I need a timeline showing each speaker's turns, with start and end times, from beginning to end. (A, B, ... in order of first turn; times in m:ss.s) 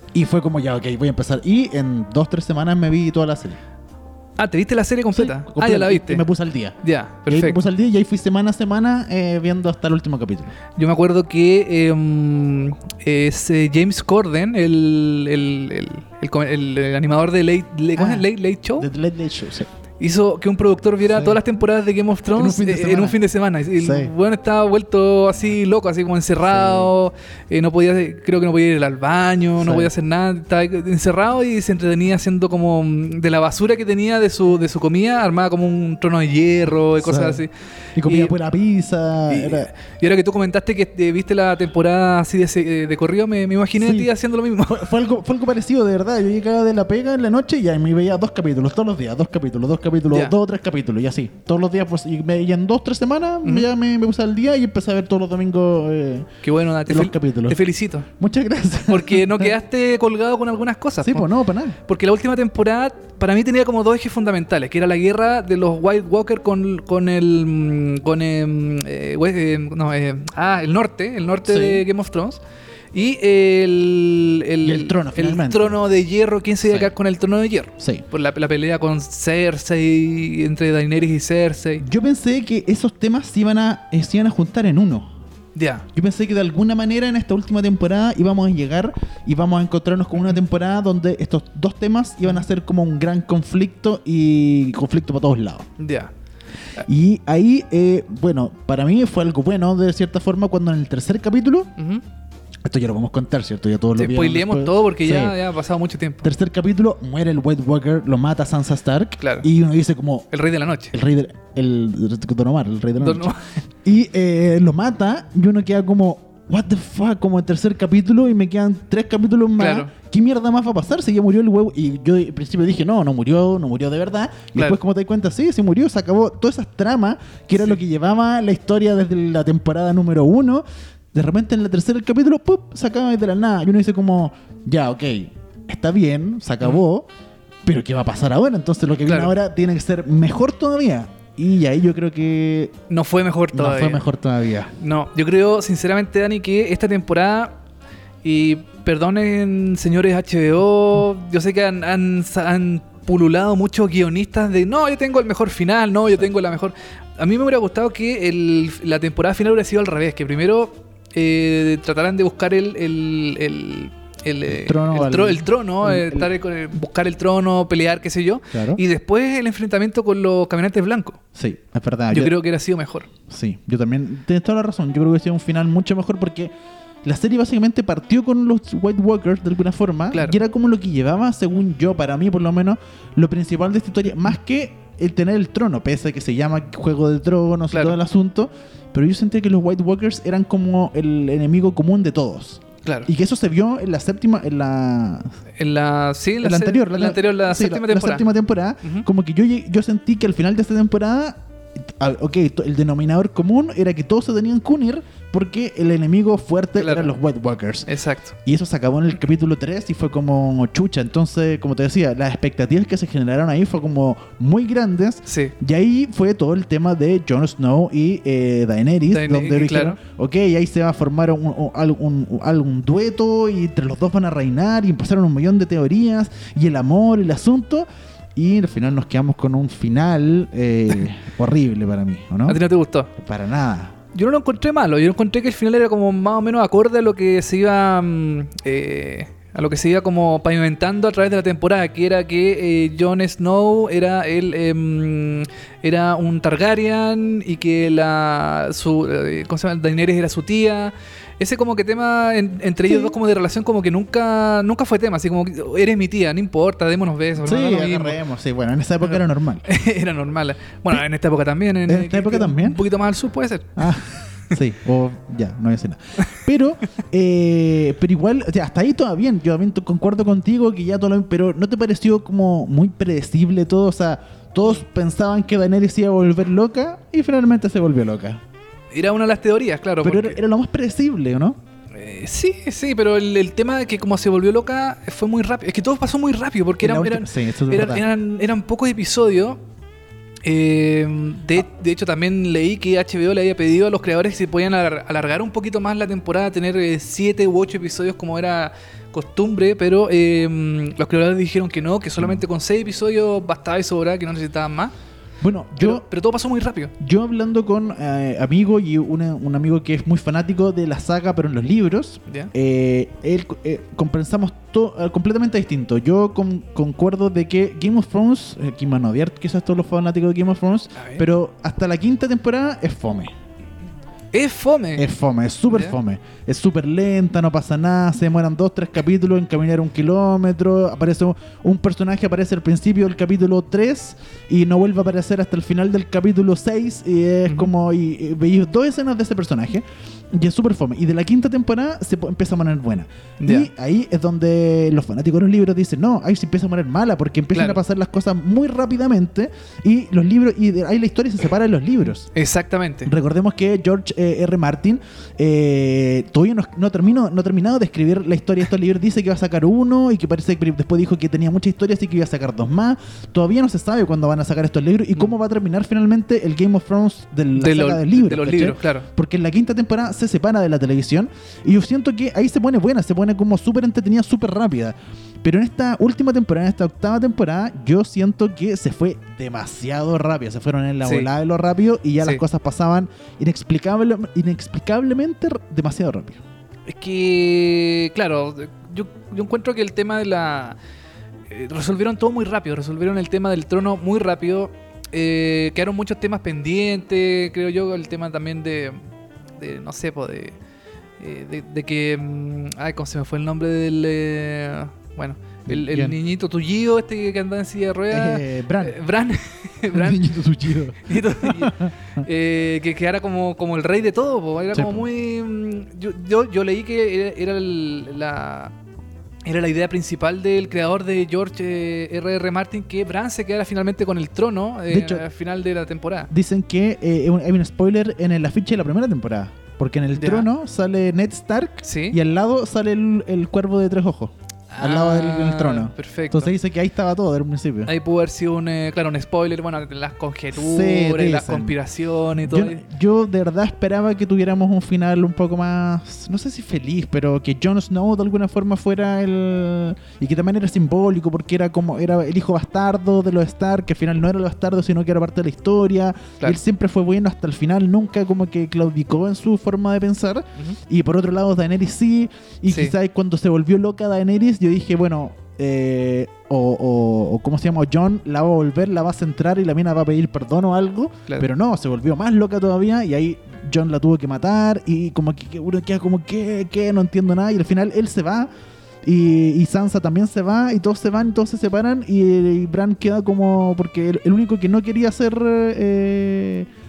0:00.1-0:03.6 A
0:04.4-0:06.2 B
0:05.1-0:10.5 A
0:06.8-0:07.6 B
0:10.8-0:18.9 B
0:17.9-0:18.3 A
0:18.8-0:19.7 A
0:20.0-0:37.5 B
0:21.1-0:21.4 A
0:22.3-0:23.2 A
0:23.8-0:24.1 A
0:26.4-0:26.9 A
0:29.6-0:29.9 A
0:37.0-0:37.4 A
0:38.0-0:39.7 A
0:38.0-0:38.3 B
0:39.3-0:44.9 B
0:43.8-0:44.1 A
0:44.6-0:56.3 A
0:50.1-0:50.3 B
0:53.4-0:53.7 B
0:56.4-0:58.1 B
0:56.8-0:59.5 A
0:58.9-1:01.3 B
1:01.0-1:01.8 A
1:01.8-1:12.4 B
1:11.4-1:11.8 A
1:12.9-1:21.8 B
1:14.6-1:15.7 A
1:16.6-1:16.9 A
1:17.8-1:18.0 A
1:21.8-1:25.1 A
1:25.5-1:25.8 B
1:25.9-1:35.7 A
1:35.8-1:36.1 B
1:36.8-1:41.7 A
1:41.8-1:42.0 B
1:42.6-1:45.4 A
1:43.9-1:46.3 B
1:46.2-1:50.3 A
1:49.2-1:49.5 B
1:50.3-1:50.9 B
1:50.9-1:53.3 A
1:53.0-1:53.6 B
1:53.8-2:17.1 A
1:59.6-1:59.9 B
2:17.6-2:22.7 A
2:19.1-2:19.3 B
2:22.9-2:24.0 B
2:23.5-2:24.7 A
2:24.8-2:27.6 B
2:28.2-2:51.2 B
2:44.5-2:46.3 A
2:48.5-2:48.8 A
2:51.3-2:52.3 A
2:52.1-2:53.1 B
2:53.3-2:56.5 A
2:57.0-3:15.3 A
3:00.1-3:00.4 B
3:07.7-3:08.0 B
3:12.8-3:13.1 B
3:15.6-3:18.3 B
3:16.4-3:27.9 A
3:26.8-3:27.1 B
3:27.9-3:28.4 B
3:28.4-3:52.6 A
3:35.3-3:35.5 B
3:39.1-3:40.0 B
3:52.4-3:53.1 B
3:53.2-3:54.0 A
3:54.1-4:18.2 B
4:12.9-4:13.2 A
4:17.4-4:19.6 A
4:19.0-4:23.9 B
4:21.9-4:22.8 A
4:23.8-4:38.4 A
4:38.9-4:40.4 B
4:40.0-4:41.6 A
4:41.9-4:49.6 B
4:46.8-4:48.1 A
4:50.4-5:04.9 B
5:05.4-5:06.0 A
5:05.8-5:06.9 B
5:07.0-5:23.3 A
5:20.9-5:21.2 B
5:24.3-5:25.0 B
5:25.0-5:52.3 A
5:25.7-5:26.0 B
5:43.4-5:43.7 B
5:47.5-5:47.8 B
5:52.3-5:53.1 B
5:53.0-6:26.4 A
6:07.6-6:09.1 B
6:21.0-6:21.3 B
6:26.9-6:30.8 B
6:31.5-6:39.0 B
6:39.6-6:40.6 B
6:41.2-6:50.2 B
6:45.7-6:46.2 A
6:48.1-6:49.0 A
6:49.9-6:51.9 A
6:50.9-6:58.7 B
6:54.7-6:55.1 A
6:59.4-7:06.3 B
7:04.9-7:05.2 A
7:06.3-7:17.9 A
7:10.1-7:10.5 B
7:11.8-7:12.2 B
7:14.7-7:16.5 B
7:17.8-7:22.8 B
7:20.5-7:21.8 A
7:22.4-7:58.5 A
7:42.7-7:42.9 B
7:59.0-8:06.7 A